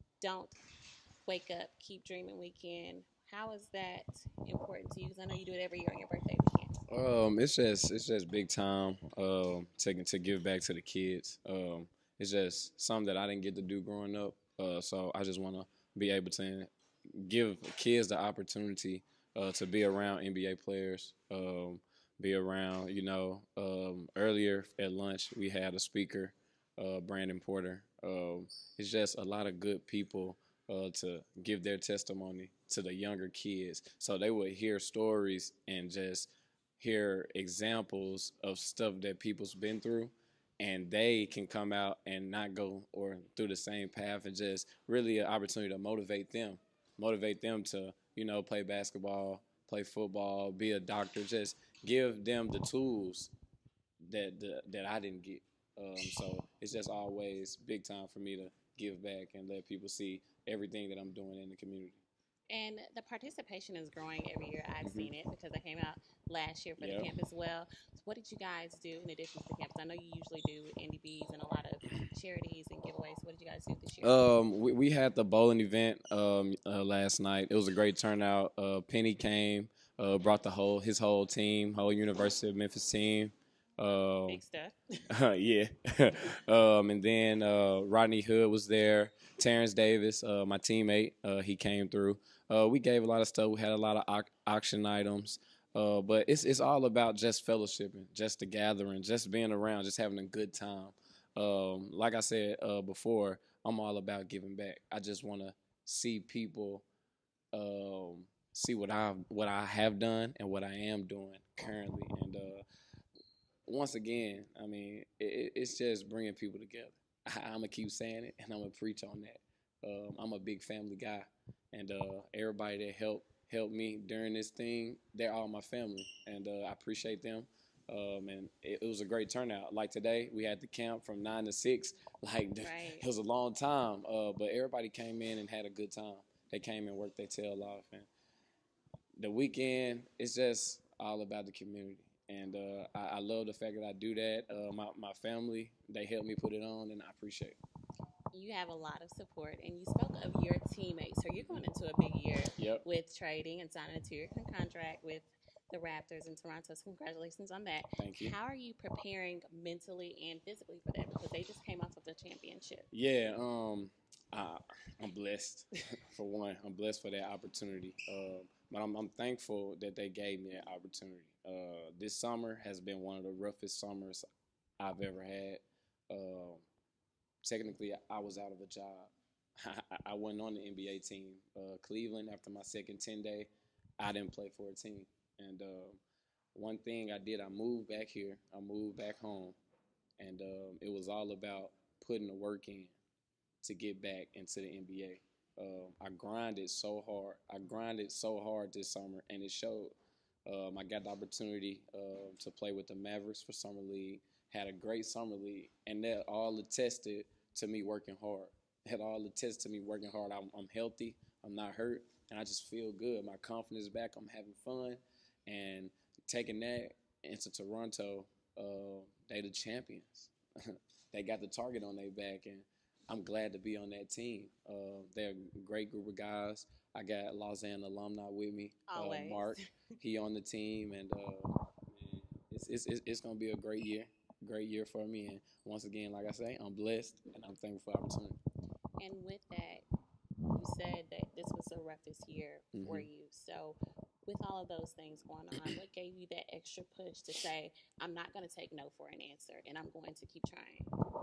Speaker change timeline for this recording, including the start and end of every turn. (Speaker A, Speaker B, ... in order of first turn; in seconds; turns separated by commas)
Speaker A: 0.2-0.6, Speaker A: 1.3-6.8, Speaker B: 6.9-53.3, Speaker B: 54.0-62.0, Speaker A: 62.5-74.3, Speaker B: 64.8-65.1, Speaker B: 66.8-67.1, Speaker B: 74.0-84.4, Speaker A: 84.3-84.8, Speaker B: 85.1-106.9, Speaker B: 107.5-112.7, Speaker B: 113.7-138.1, Speaker A: 132.6-133.1, Speaker B: 139.2-147.6, Speaker A: 148.3-162.9, Speaker B: 151.4-151.6, Speaker B: 152.6-152.8, Speaker B: 158.0-158.4, Speaker B: 162.9-174.2, Speaker B: 174.8-176.7, Speaker B: 177.4-186.0, Speaker B: 186.5-189.6, Speaker B: 190.2-192.9, Speaker B: 193.6-199.9, Speaker B: 200.5-238.4, Speaker A: 228.9-229.6, Speaker A: 239.0-239.8, Speaker A: 240.5-250.9, Speaker B: 242.7-243.1